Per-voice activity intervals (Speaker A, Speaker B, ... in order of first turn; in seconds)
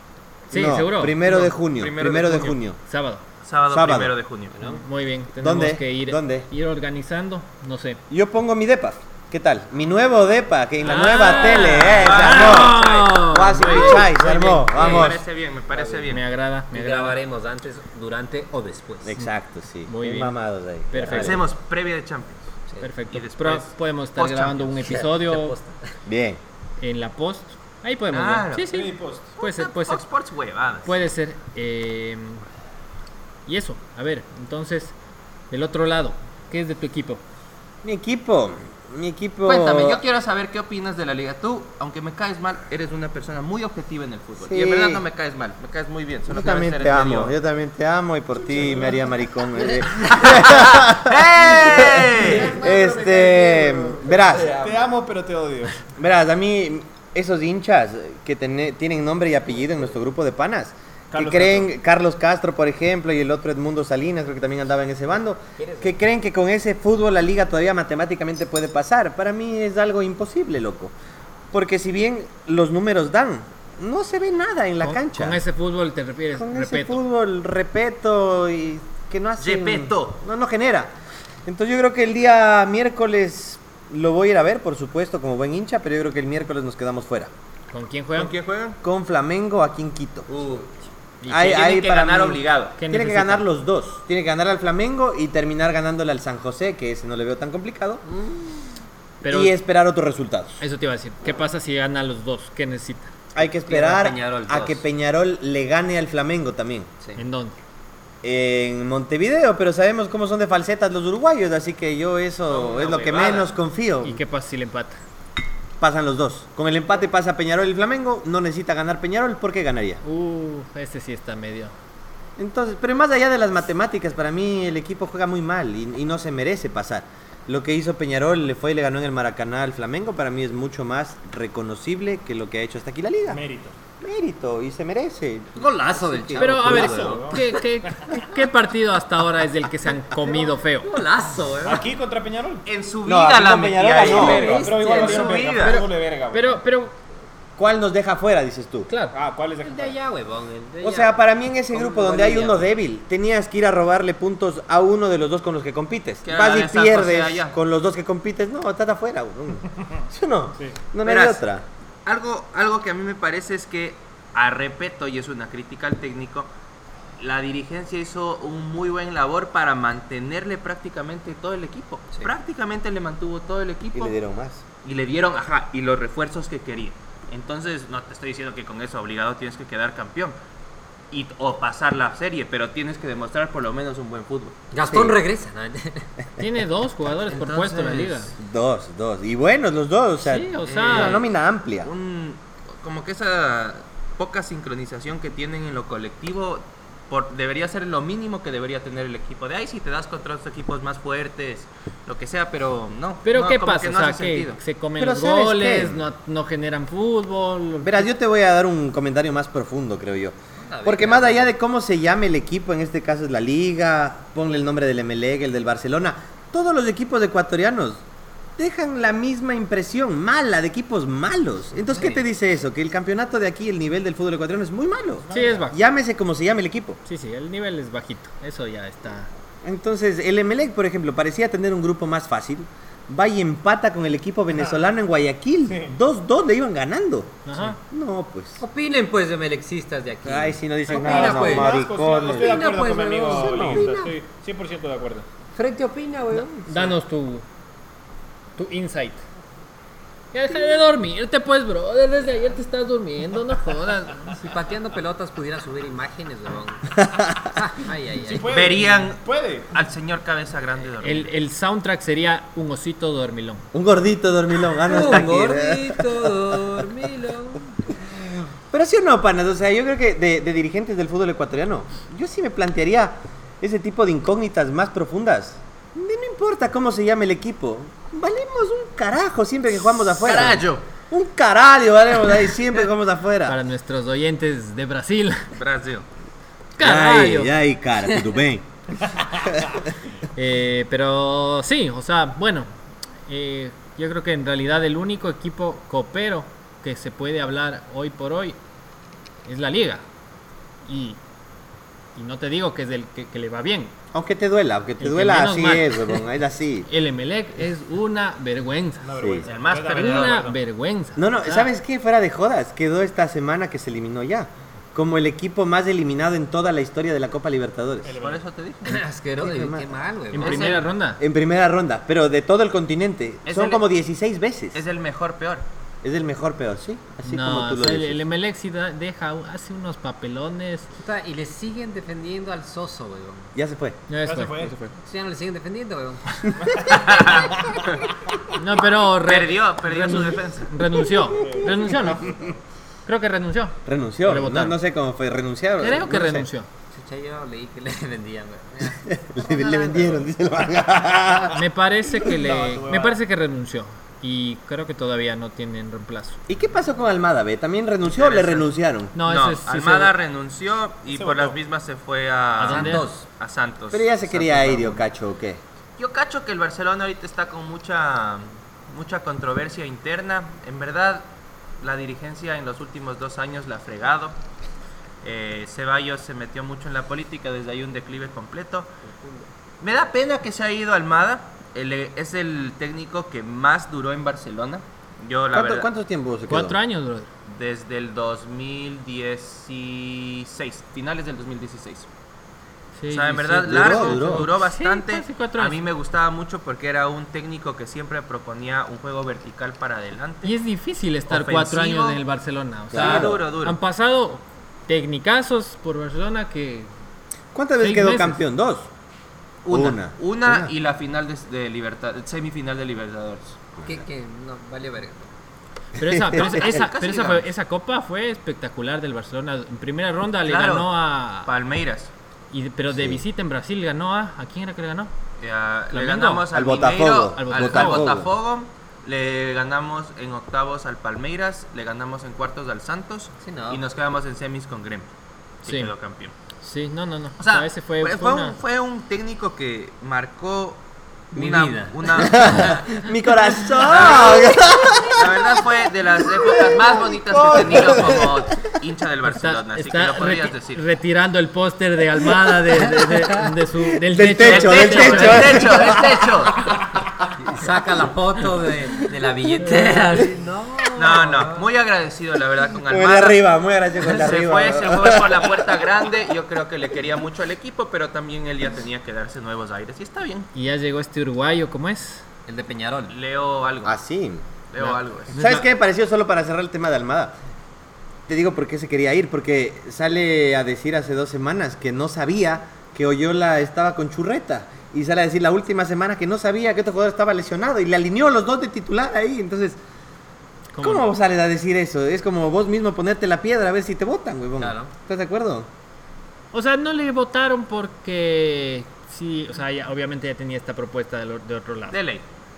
Speaker A: 0.5-1.5, 2.9-3.2, 4.6-8.0, 10.8-15.1, 16.1-17.2, 19.9-20.4, 20.9-21.4, 22.8-25.6, 26.8-30.0, 30.8-32.4, 33.5-34.9, 35.5-37.2, 74.8-77.0, 87.7-88.3, 91.2-91.5, 92.8-93.5, 99.2-99.5, 100.6-103.1, 107.2-107.6, 114.0-115.0, 120.0-121.7, 136.3-140.9, 145.6-146.9, 148.9-149.1, 186.4-188.3, 190.2-191.2, 203.2-208.1, 225.3-225.8, 227.0-229.3, 237.4-237.8, 246.6-247.4, 248.6-249.2, 250.3-254.4, 261.0-263.7, 283.4-285.5, 286.8-287.5, 290.3-292.7, 293.2-298.6, 299.4-300.0, 300.8-301.2, 302.1-303.9, 305.0-306.2, 306.9-309.1, 309.9-311.7, 320.3-321.2, 327.2-330.9, 334.1-334.8, 338.5-342.3, 343.1-344.8, 345.8-346.7, 351.5-356.4, 359.1-360.1, 362.6-363.1, 386.5-387.3, 392.9-395.8, 400.4-406.9, 407.8-408.4, 416.0-421.5, 422.5-425.1, 425.9-426.4, 427.3-428.1, 435.6-435.9, 436.6-438.6, 449.3-455.6, 470.5-472.2, 474.8-475.6, 490.7-491.1, 496.5-502.0
Speaker B: 0.5-2.8, 3.7-4.1, 5.4-6.5, 8.1-15.2, 19.0-21.5, 26.1-26.4, 37.8-40.0, 44.4-45.0, 46.3-54.6, 56.0-70.9, 71.5-75.4, 76.3-80.9, 81.4-87.3, 88.8-90.3, 91.3-98.0, 99.3-100.6, 103.3-106.9, 108.2-114.2, 115.8-120.0, 122.4-133.4, 134.0-137.1, 143.0-144.5, 147.6-148.9, 150.8-161.6, 173.9-174.6, 184.9-185.2, 188.3-191.9, 205.0-206.0, 207.8-218.0, 218.6-227.0, 229.6-238.6, 240.2-242.7, 243.4-243.9, 257.0-257.4, 263.7-266.8, 268.7-283.6, 286.8-289.8, 304.1-306.9, 309.2-309.4, 311.1-318.1, 319.4-319.9, 321.2-324.8, 326.0-328.2, 333.5-334.0, 343.9-346.5, 349.0-351.6, 356.5-359.1, 363.9-365.6, 385.5-386.8, 393.7-394.5, 402.9-403.4, 407.5-408.9, 409.7-410.7, 413.8-414.0, 416.0-416.9, 422.9-423.2, 426.5-428.3, 442.1-445.6, 446.2-448.7, 454.0-456.5, 462.9-465.8, 473.8-474.4, 475.3-477.3, 478.3-489.8, 490.8-495.7
Speaker C: 1.5-2.6, 3.4-4.6, 11.5-16.2, 21.1-22.5, 23.1-24.9, 28.1-28.8, 29.4-31.1, 39.4-47.3, 50.0-52.5, 79.4-80.2, 88.2-88.8, 90.3-90.7, 91.3-92.8, 112.5-113.5, 142.7-145.8, 156.2-157.6, 161.0-161.4, 162.1-166.5, 167.2-174.2, 174.8-180.3, 181.1-184.6, 187.3-188.3, 190.6-204.6, 258.5-261.3, 279.8-280.9, 285.5-286.1, 309.4-310.5, 318.2-319.0, 320.3-320.8, 323.4-323.8, 324.7-325.6, 336.9-338.0, 339.2-340.7, 358.1-358.7, 359.2-365.0, 366.0-371.3, 371.8-374.4, 375.2-378.9, 379.8-385.9, 387.4-392.1, 393.1-400.5, 401.3-402.2, 402.9-403.8, 409.6-413.6, 416.3-417.5, 420.4-422.1, 425.4-435.1, 435.6-436.3, 437.4-442.8, 443.8-450.8, 454.4-456.8, 460.9-463.4, 464.0-470.5, 473.1-474.0, 474.7-475.4, 501.9-502.2
Speaker D: 4.5-4.8, 15.7-16.1, 16.7-19.2, 24.8-25.9, 65.6-66.0, 98.1-98.6, 103.4-104.8, 135.6-137.4, 140.2-141.9, 144.0-145.5, 149.6-152.7, 184.7-186.1, 210.6-211.5, 221.9-222.2, 238.6-244.2, 245.5-246.8, 254.3-258.7, 264.8-268.0, 318.8-320.8, 331.0-333.5, 335.0-337.7, 346.9-350.3, 362.7-363.2, 379.0-379.5, 413.8-415.3, 433.4-433.8, 441.3-443.0, 443.8-445.0, 457.4-461.6, 472.4-473.2, 494.6-494.9
Speaker E: 28.7-29.4, 48.5-49.0, 52.2-55.8, 61.1-61.7, 133.3-133.8, 136.6-137.4, 141.6-142.6, 144.0-146.6, 149.1-149.9, 225.2-225.7, 235.7-235.9, 240.9-245.2, 258.2-259.8, 309.0-310.6, 318.0-318.4, 334.2-334.9, 341.3-342.6, 352.2-353.2, 361.1-361.6